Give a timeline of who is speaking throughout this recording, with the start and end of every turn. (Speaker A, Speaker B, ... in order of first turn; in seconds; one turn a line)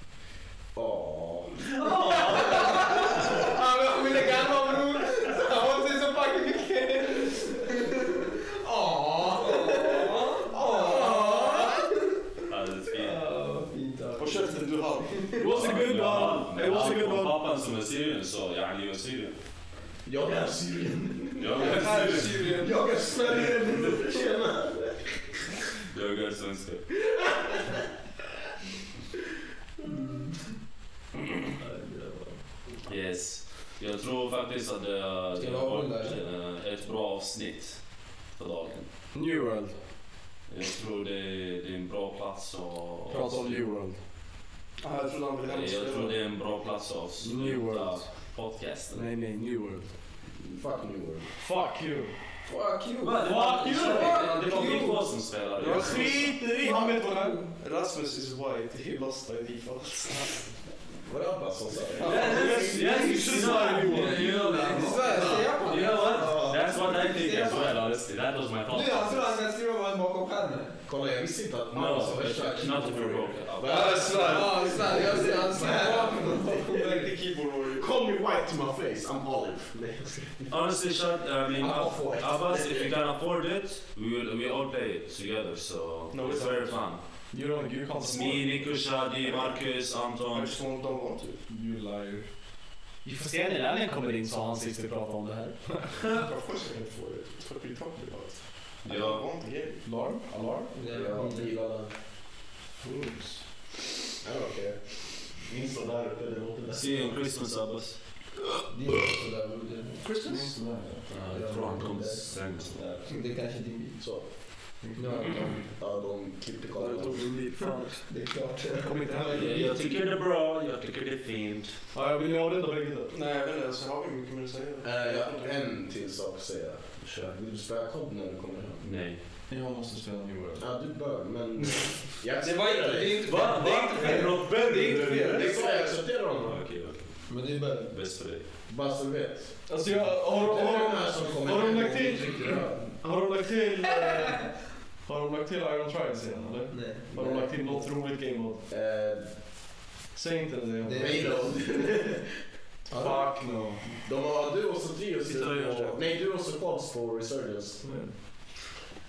Speaker A: 0.8-1.6
Speaker B: 1.8-2.6
Speaker C: 2.1-12.2
Speaker D: 9.5-11.7
Speaker A: 10.9-11.3
Speaker B: 12.5-13.3
Speaker C: 12.9-15.4
Speaker D: 14.2-15.5
Speaker E: 15.4-17.4
Speaker B: 15.4-19.3
Speaker A: 20.1-25.6
Speaker B: 21.4-22.6
Speaker C: 21.6-22.2
Speaker D: 21.6-22.6
Speaker B: 25.9-26.9
Speaker C: 29.9-30.3
Speaker E: 31.6-32.4
Speaker B: 32.9-38.9
Speaker C: 35.4-36.2
Speaker E: 39.1-39.8
Speaker B: 40.5-43.7
Speaker E: 43.1-44.0
Speaker D: 44.8-46.1
Speaker B: 45.5-49.1
Speaker E: 47.2-48.4
Speaker E: 48.9-49.9
Speaker A: 50.4-51.3
Speaker E: 51.4-52.1
Speaker C: 52.5-55.3
Speaker B: 53.0-56.4
Speaker E: 53.2-54.3
Speaker D: 55.6-60.4
Speaker E: 55.7-57.4
Speaker A: 61.1-63.5
Speaker D: 62.0-62.4
Speaker B: 62.0-69.4
Speaker E: 62.0-64.5
Speaker D: 63.9-65.5
Speaker C: 64.2-67.7
Speaker C: 68.7-70.8
Speaker A: 70.9-77.0
Speaker B: 71.7-74.3
Speaker C: 73.7-77.1
Speaker D: 73.7-74.5
Speaker D: 76.7-77.9
Speaker A: 77.7-80.5
Speaker B: 80.5-87.0
Speaker A: 81.5-82.9
Speaker D: 86.1-86.8
Speaker E: 87.3-88.7
Speaker B: 88.0-90.5
Speaker D: 89.2-89.6
Speaker D: 90.3-91.4
Speaker E: 91.5-92.4
Speaker E: 93.0-96.1
Speaker D: 95.9-99.8
Speaker B: 98.8-99.2
Speaker E: 99.8-100.7
Speaker A: 100.7-101.9
Speaker C: 100.7-101.6
Speaker E: 102.8-103.4
Speaker A: 104.2-107.2
Speaker B: 106.7-108.0
Speaker C: 108.7-114.0
Speaker E: 110.0-110.6
Speaker B: 111.1-112.8
Speaker A: 114.0-117.4
Speaker E: 114.8-115.3
Speaker B: 115.2-115.5
Speaker E: 116.7-118.2
Speaker C: 118.1-119.7
Speaker E: 118.8-119.7
Speaker B: 119.3-121.8
Speaker E: 121.9-123.1
Speaker D: 123.1-125.6
Speaker A: 124.8-128.8
Speaker B: 127.0-127.3
Speaker B: 128.8-129.2
Speaker E: 129.5-130.8
Speaker A: 130.6-133.5
Speaker D: 132.4-136.0
Speaker B: 133.2-135.5
Speaker E: 134.2-134.7
Speaker A: 135.3-136.7
Speaker B: 136.4-138.5
Speaker C: 137.3-137.9
Speaker A: 138.7-142.9
Speaker E: 139.7-148.6
Speaker C: 146.7-147.1
Speaker A: 147.1-147.8
Speaker A: 148.7-149.5
Speaker E: 150.1-151.5
Speaker C: 150.8-152.1
Speaker A: 150.9-152.4
Speaker E: 152.9-153.8
Speaker C: 152.9-153.3
Speaker A: 153.8-158.1
Speaker D: 155.3-156.0
Speaker E: 155.6-156.0
Speaker E: 157.8-158.1